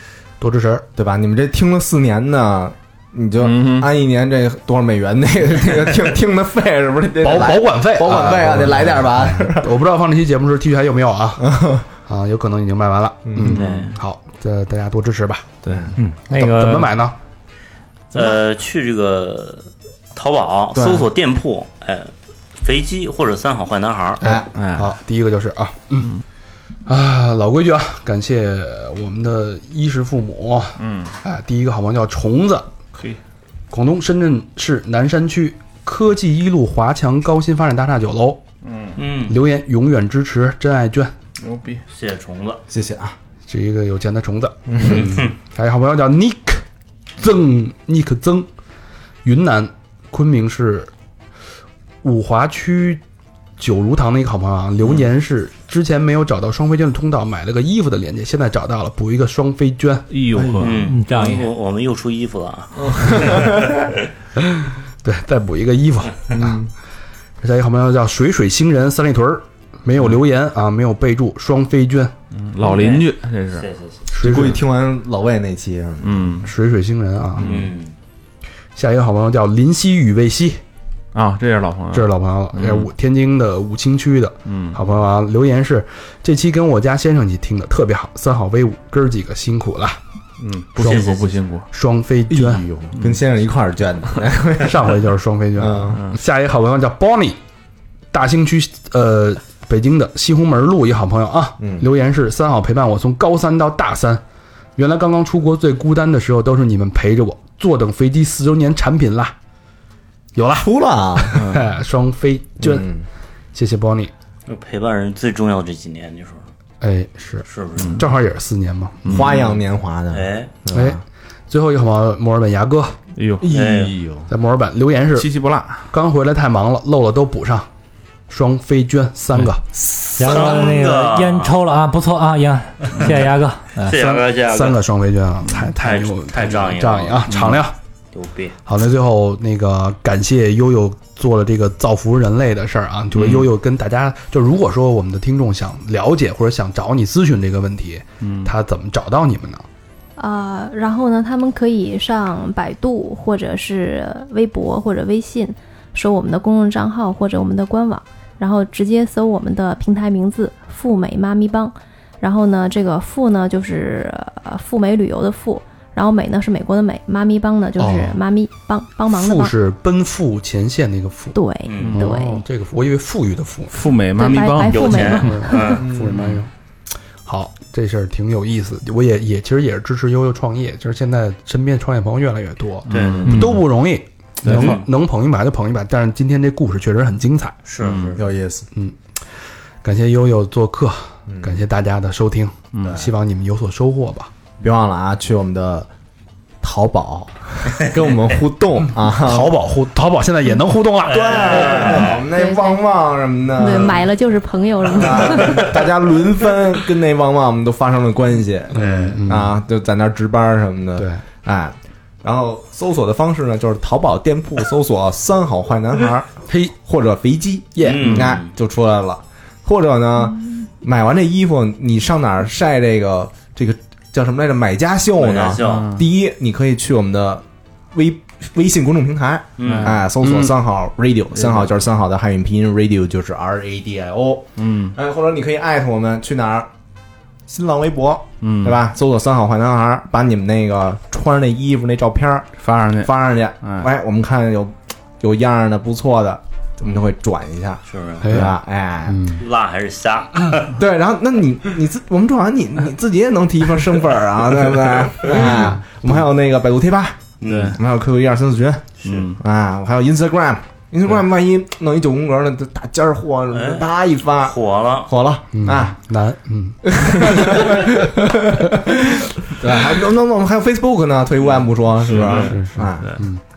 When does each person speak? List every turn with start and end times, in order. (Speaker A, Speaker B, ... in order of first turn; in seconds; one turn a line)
Speaker A: 0.4-0.8
Speaker B: 1.0-9.7
Speaker C: 3.4-3.9
Speaker A: 7.2-11.5
Speaker B: 11.4-11.8
Speaker A: 12.1-15.5
Speaker B: 13.2-13.8
Speaker D: 13.5-14.0
Speaker B: 15.7-15.9
Speaker E: 16.0-16.9
Speaker A: 16.3-17.2
Speaker D: 18.1-24.2
Speaker B: 20.8-21.1
Speaker A: 24.2-26.1
Speaker C: 24.6-24.9
Speaker A: 26.9-32.7
Speaker C: 30.8-31.2
Speaker A: 33.7-38.4
Speaker C: 38.6-39.0
Speaker D: 39.0-39.4
Speaker A: 39.2-41.1
Speaker C: 41.4-41.8
Speaker D: 41.9-42.6
Speaker B: 42.7-43.2
Speaker A: 43.5-46.6
Speaker B: 44.7-45.0
Speaker D: 44.9-45.3
Speaker A: 47.2-48.5
Speaker A: 49.2-50.9
Speaker A: 52.0-53.0
Speaker A: 53.6-60.1
Speaker C: 60.1-61.5
Speaker B: 60.3-60.9
Speaker D: 60.6-63.9
Speaker E: 60.8-61.5
Speaker C: 62.8-63.5
Speaker A: 64.4-66.4
Speaker C: 66.3-66.7
Speaker A: 67.4-72.1
Speaker C: 72.3-73.7
Speaker D: 72.6-74.0
Speaker B: 74.1-76.4
Speaker A: 74.1-74.6
Speaker C: 76.0-76.5
Speaker A: 76.4-77.7
Speaker C: 77.4-77.7
Speaker D: 77.4-77.9
Speaker A: 78.8-80.6
Speaker C: 81.1-82.9
Speaker A: 81.9-90.0
Speaker C: 84.5-84.8
Speaker C: 90.4-91.7
Speaker A: 90.8-91.2
Speaker D: 90.8-91.4
Speaker A: 91.7-92.7
Speaker B: 92.3-94.8
Speaker A: 94.6-97.4
Speaker B: 95.6-96.0
Speaker A: 98.1-104.2
Speaker B: 101.6-101.9
Speaker A: 104.8-109.3
Speaker A: 110.3-112.9
Speaker B: 110.5-111.5
Speaker B: 112.6-113.0
Speaker A: 113.5-114.1
Speaker D: 114.5-116.5
Speaker A: 116.8-119.1
Speaker D: 117.5-118.0
Speaker C: 119.0-119.6
Speaker B: 119.1-121.0
Speaker D: 120.1-120.5
Speaker A: 120.7-123.0
Speaker C: 123.2-123.9
Speaker B: 123.4-124.3
Speaker D: 123.5-124.0
Speaker A: 124.3-125.3
Speaker C: 125.2-125.9
Speaker A: 125.9-127.7
Speaker A: 128.3-129.6
Speaker E: 130.2-133.9
Speaker D: 130.2-131.6
Speaker D: 133.9-134.8
Speaker A: 133.9-137.8
Speaker D: 135.7-137.6
Speaker D: 138.1-138.6
Speaker A: 138.7-149.7
Speaker D: 143.2-143.4
Speaker C: 148.2-148.5
Speaker F: 150.2-169.5
Speaker A: 167.8-168.2
Speaker A: 169.1-173.9
Speaker F: 171.3-172.4
Speaker D: 171.7-172.0
Speaker C: 173.7-175.3
Speaker F: 174.2-175.8
Speaker D: 174.2-175.9
Speaker A: 175.2-176.5
Speaker B: 175.8-176.2
Speaker A: 177.2-187.6
Speaker C: 182.9-183.6
Speaker D: 182.9-183.4
Speaker E: 183.3-183.6
Speaker C: 184.4-184.8
Speaker D: 184.5-184.9
Speaker D: 187.7-188.2
Speaker C: 187.8-188.2
Speaker B: 188.2-188.7
Speaker A: 189.8-194.3
Speaker B: 191.3-191.6
Speaker B: 194.6-195.9
Speaker B: 196.6-199.6
Speaker A: 199.0-201.9
Speaker D: 201.1-202.2
Speaker B: 201.1-204.1
Speaker F: 202.3-202.8
Speaker F: 203.6-205.7
Speaker B: 204.9-216.3
Speaker A: 208.7-209.6
Speaker D: 208.8-209.3
Speaker A: 216.5-216.8
Speaker B: 216.8-236.7
Speaker A: 217.8-218.3
Speaker D: 217.8-218.5
Speaker D: 225.2-226.0
Speaker C: 225.6-226.1
Speaker D: 229.6-230.0
Speaker C: 229.6-229.9
Speaker A: 230.2-230.5
Speaker C: 231.3-231.7
Speaker C: 234.6-234.9
Speaker B: 237.5-249.3
Speaker C: 238.4-238.8
Speaker C: 242.6-243.1
Speaker C: 243.6-243.9
Speaker D: 247.9-248.5
Speaker A: 248.2-248.5
Speaker A: 249.1-249.4
Speaker D: 249.3-250.7
Speaker B: 250.8-257.2
Speaker A: 255.3-256.1
Speaker D: 257.4-257.8
Speaker C: 257.5-257.8
Speaker B: 257.7-258.9
Speaker D: 259.0-259.3
Speaker C: 259.1-259.4
Speaker B: 259.4-264.6
Speaker D: 263.5-263.9
Speaker D: 264.4-265.1
Speaker B: 265.1-265.9
Speaker A: 265.5-268.2
Speaker B: 266.8-273.2
Speaker C: 272.1-273.2
Speaker A: 272.3-273.4